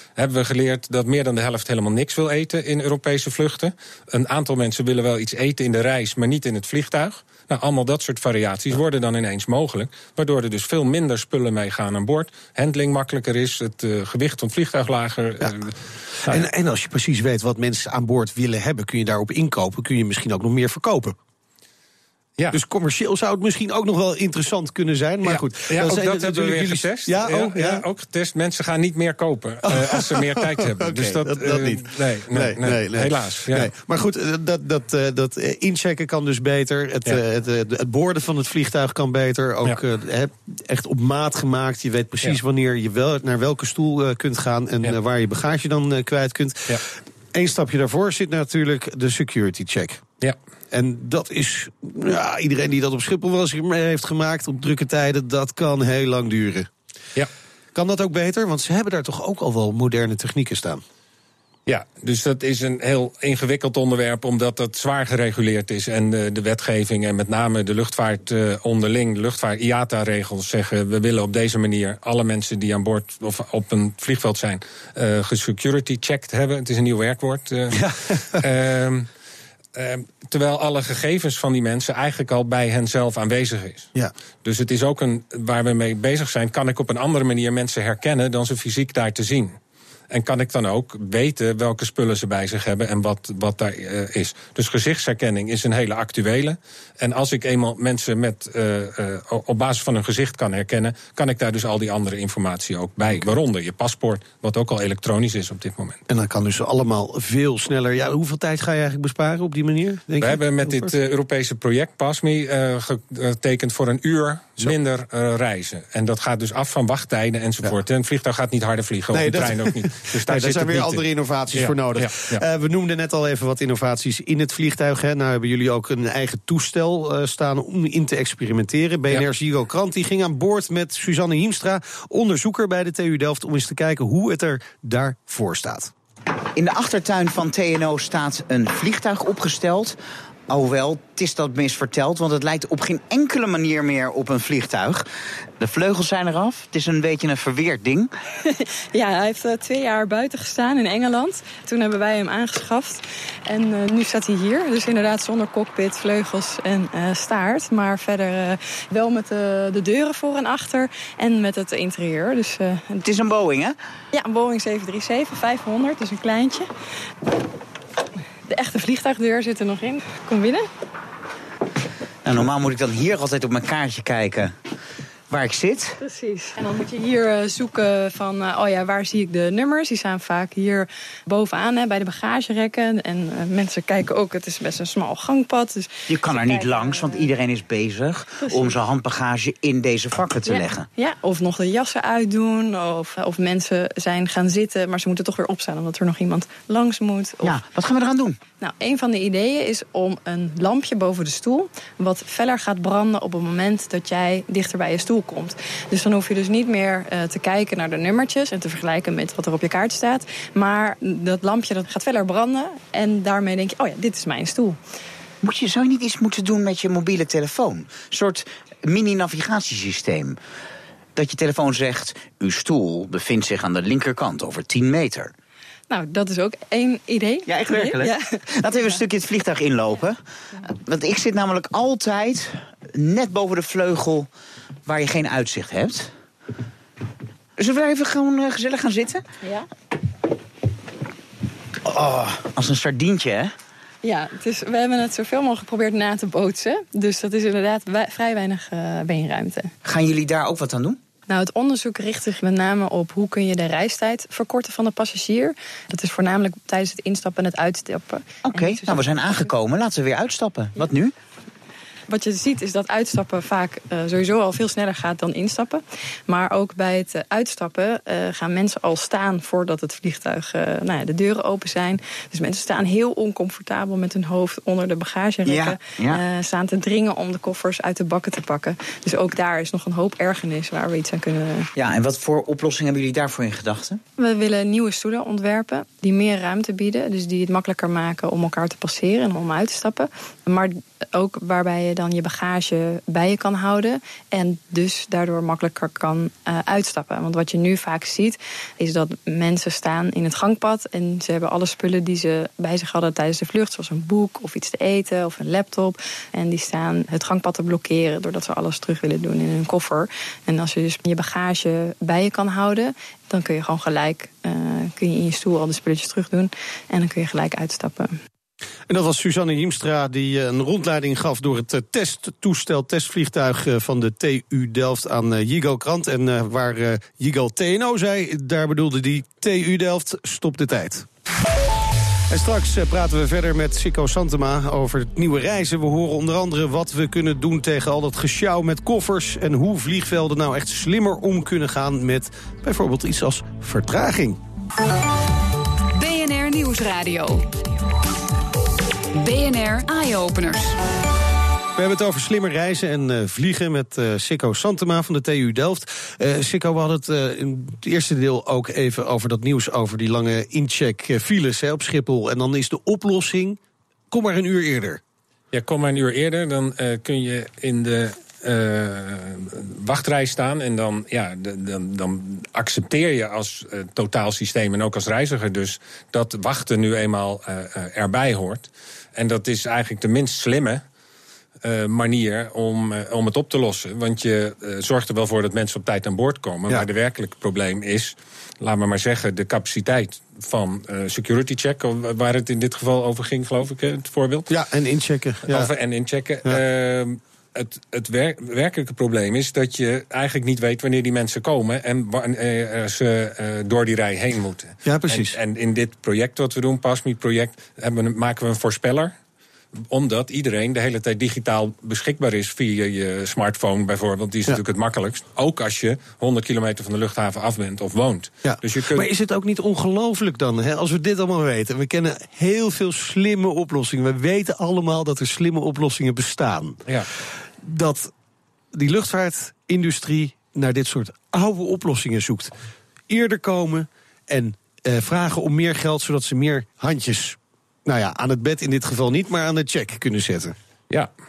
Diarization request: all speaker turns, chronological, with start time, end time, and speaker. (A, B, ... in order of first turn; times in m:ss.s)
0:00.2-0:16.4 A
0:16.2-0:21.2 B
0:22.5-0:27.8 B
0:25.2-0:33.7 A
0:29.6-0:46.8 B
0:47.3-0:50.0 B
0:50.7-0:56.7 B
0:57.8-1:00.8 B
1:01.7-1:19.1 A
1:17.7-1:18.4 B
1:19.8-1:23.9 A
1:24.4-1:29.6 A
1:30.1-1:46.0 A
1:46.1-1:50.9 B
1:50.2-2:01.0 A
1:59.1-2:15.9 B
2:01.5-2:02.4 A
2:16.6-2:20.0 C
2:20.5-2:25.1 C
2:25.6-2:28.1 C
2:28.4-2:43.0 D
2:43.0-2:43.8 C
2:44.1-2:46.7 D
2:48.5-2:50.7 D
2:52.2-2:54.5 C
2:55.3-2:56.0 C
2:56.0-3:07.3 D
3:06.1-3:10.9 C
3:08.4-3:08.7 D
3:10.5-3:17.6 D
3:17.4-3:18.4 C
3:18.6-3:34.8 D
3:35.4-3:40.4 C
3:41.2-3:45.3 C
3:45.9-3:48.4 D
3:47.5-3:50.2 C
3:50.8-3:54.3 C
3:54.9-3:56.1 C
3:57.6-3:59.2 C
3:59.4-3:59.7 D
4:01.8-4:03.5 C
4:04.0-4:09.7 D
4:09.8-4:11.0 C
4:11.3-4:19.5 D
4:18.5-4:21.1 C
4:22.1-4:41.7 D
4:35.5-4:36.2 C
4:41.8-4:44.0 C
4:44.2-5:18.2 D
5:18.9-5:31.1 B
5:32.3-5:44.4 B
5:45.9-5:47.5 E
5:49.1-5:50.8 E
5:51.8-6:03.6 B
6:04.1-6:05.0 B
6:05.5-6:20.8 A
6:21.6-6:34.5 A
6:34.5-6:35.7 B
6:35.5-6:49.1 A
6:44.8-6:45.4 B
6:49.9-6:59.1 A
6:58.4-7:06.8 B
7:07.6-7:08.1 B
7:08.7-7:12.5 B
7:13.1-7:20.6 B